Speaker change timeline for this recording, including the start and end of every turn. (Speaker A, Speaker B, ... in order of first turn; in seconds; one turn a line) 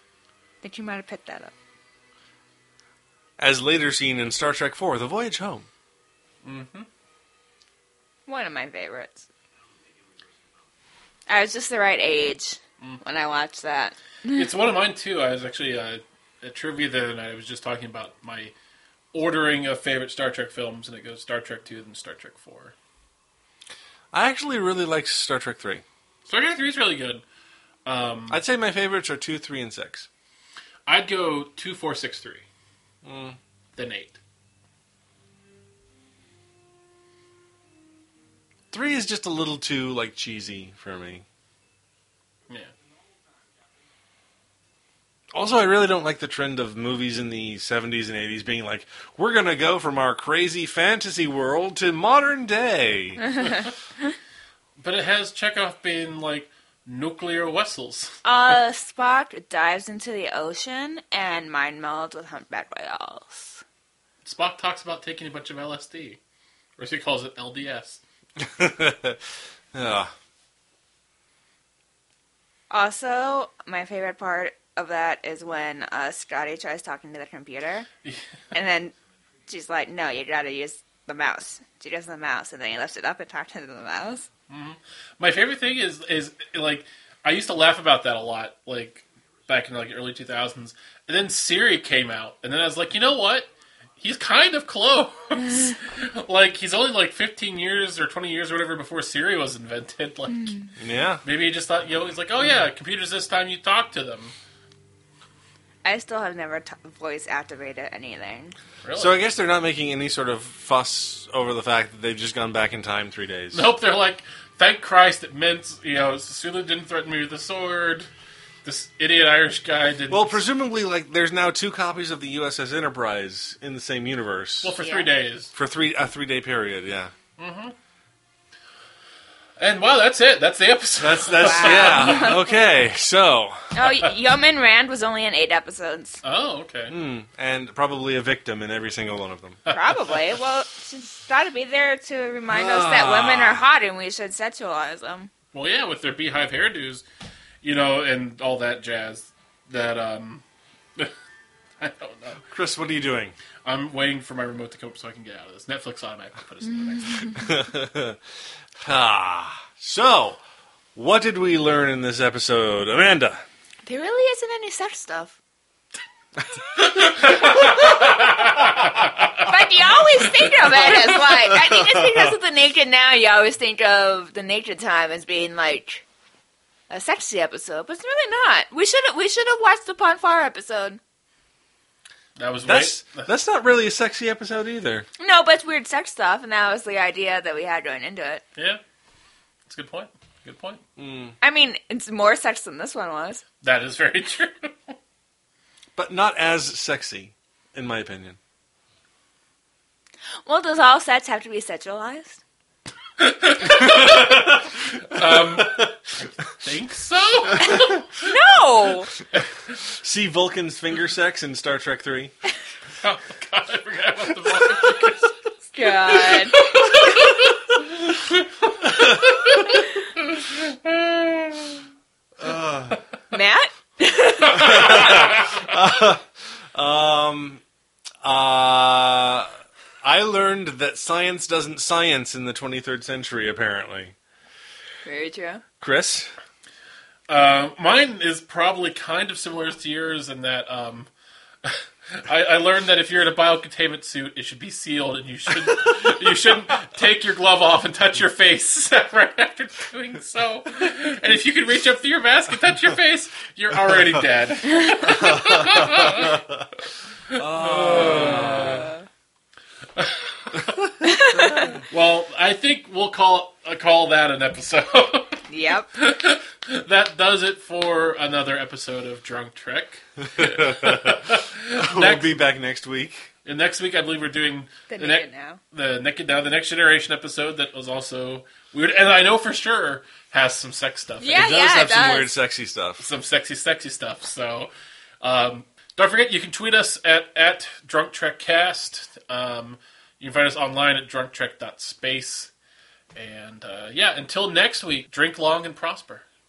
Speaker A: 0.6-1.5
Speaker B: 3.4-5.7
Speaker C: 6.4-6.9
Speaker A: 8.3-9.3
Speaker A: 11.3-14.4
Speaker C: 14.3-18.6
Speaker C: 19.1-22.7
Speaker B: 24.1-25.8
Speaker C: 26.3-27.2
Speaker C: 27.9-28.4
Speaker B: 28.3-30.1
Speaker C: 30.9-32.5
Speaker B: 33.0-33.4
Speaker C: 33.8-34.2
Speaker B: 38.7-41.2
Speaker B: 45.3-53.2
Speaker C: 53.4-53.7
Speaker C: 54.8-58.2
Speaker A: 58.2-63.6
Speaker C: 64.2-66.2
Speaker C: 66.8-68.0
Speaker B: 68.4-69.2
Speaker B: 69.7-70.1
Speaker A: 72.7-77.9
Speaker A: 78.5-78.9
Speaker A: 79.5-84.3
Speaker C: 84.5-100.7
Speaker B: 100.8-101.2
Speaker C: 101.2-104.3
Speaker A: 105.8-108.6
Speaker C: 108.8-109.1
Speaker B: 109.0-113.7
Speaker C: 113.5-118.1
Speaker C: 118.6-120.4
Speaker B: 120.1-124.8
Speaker C: 124.6-125.5
Speaker A: 124.8-125.1
Speaker B: 125.5-127.1
Speaker C: 127.4-127.8
Speaker C: 129.6-132.4
Speaker B: 131.0-133.7
Speaker A: 131.4-132.4
Speaker A: 133.7-136.2
Speaker C: 136.2-137.0
Speaker B: 136.9-139.6
Speaker C: 139.7-139.9
Speaker A: 139.7-145.3
Speaker B: 142.5-143.7
Speaker C: 145.5-147.0
Speaker C: 147.6-150.4
Speaker C: 151.8-152.4
Speaker B: 152.5-153.4
Speaker C: 153.6-157.6
Speaker B: 157.3-158.2
Speaker B: 158.8-160.4
Speaker B: 160.9-163.4
Speaker A: 163.9-165.4
Speaker C: 166.8-169.3
Speaker A: 169.4-176.1
Speaker C: 170.3-171.0
Speaker A: 176.9-181.0
Speaker C: 182.4-183.3
Speaker B: 182.7-185.1
Speaker A: 185.2-188.4
Speaker C: 188.6-188.8
Speaker C: 189.7-190.8
Speaker B: 191.0-191.4
Speaker A: 191.4-193.4
Speaker C: 193.6-194.9
Speaker B: 196.0-198.4
Speaker A: 200.4-202.4
Speaker C: 203.2-208.2
Speaker B: 203.8-205.9
Speaker A: 208.2-209.1
Speaker B: 209.8-212.3
Speaker C: 213.0-215.3
Speaker A: 215.7-216.9
Speaker C: 216.1-221.8
Speaker B: 222.4-223.0
Speaker A: 223.3-225.2
Speaker B: 224.5-227.6
Speaker C: 224.7-225.1
Speaker B: 228.2-234.2
Speaker A: 235.1-235.6
Speaker B: 235.8-236.3
Speaker C: 237.3-241.1
Speaker C: 241.6-256.4
Speaker B: 255.2-256.6
Speaker B: 257.3-258.9
Speaker C: 257.3-258.9
Speaker C: 260.0-260.8
Speaker B: 260.7-261.8
Speaker A: 261.0-261.8
Speaker C: 261.9-265.4
Speaker A: 265.5-265.9
Speaker C: 265.9-272.3
Speaker B: 270.4-273.3
Speaker C: 273.4-282.2
Speaker A: 274.9-275.6
Speaker A: 281.2-282.3
Speaker B: 281.8-283.0
Speaker C: 283.0-284.7
Speaker C: 285.2-292.5
Speaker C: 293.1-296.2